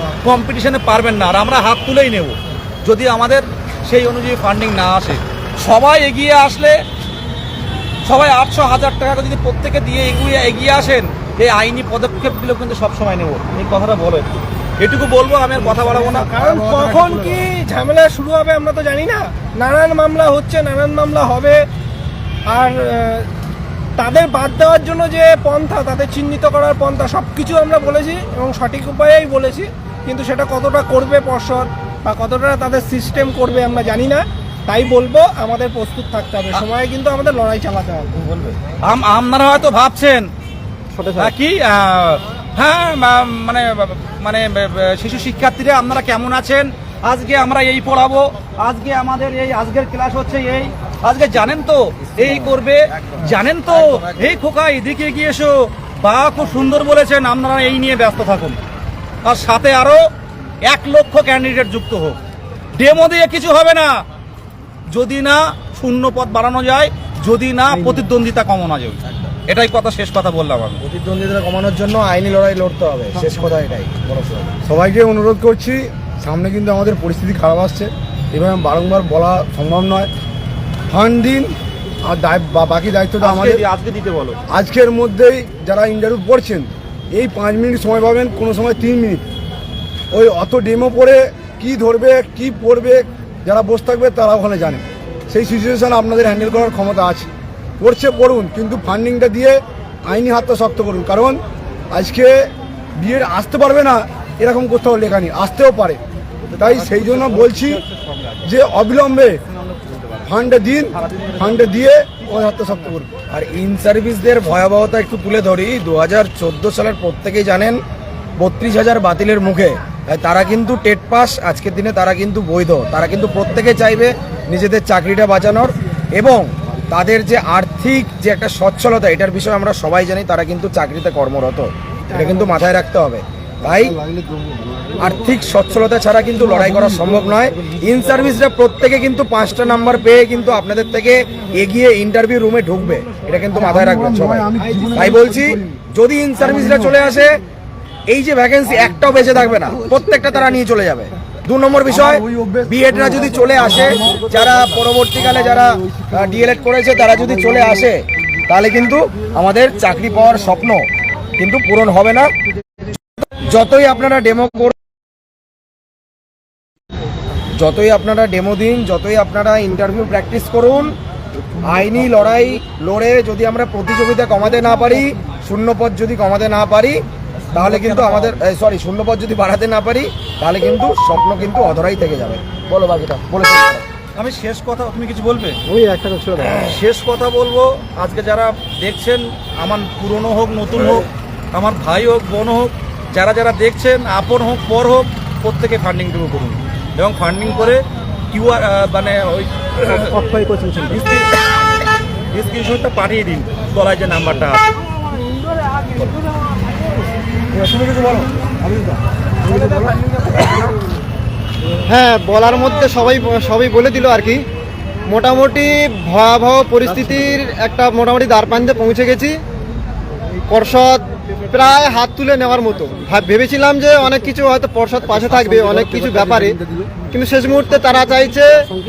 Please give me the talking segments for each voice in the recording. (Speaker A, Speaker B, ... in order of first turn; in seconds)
Speaker A: 0.2-6.8, 8.0-14.3, 14.8-16.3, 38.1-40.3, 41.2-58.6, 59.2-60.0, 60.6-62.2, 62.7-64.0, 64.9-70.8, 83.2-84.4, 106.5-108.5, 109.5-111.8, 184.2-185.6, 186.5-200.1, 200.9-201.3, 202.3-204.7
Speaker B: 15.6-21.6, 22.4-23.3, 24.0-38.1, 132.1-132.4, 200.1-200.9
Speaker C: 16.4-17.4, 74.6-80.1, 80.9-83.6, 84.5-89.2, 90.1-97.3, 97.8-106.0, 106.6-107.8, 108.5-109.4, 110.3-113.1, 143.7-145.6, 151.9-154.2
Speaker D: 40.9-41.3, 185.7-186.8, 211.9-214.4, 215.1-219.4, 220.5-228.7
Speaker E: 52.1-54.4, 70.8-74.6, 113.1-117.8, 118.4-134.0, 135.0-147.4, 148.1-160.8, 161.4-162.3, 163.5-164.8, 167.6-170.9, 171.6-177.0, 177.5-183.8, 207.5-208.3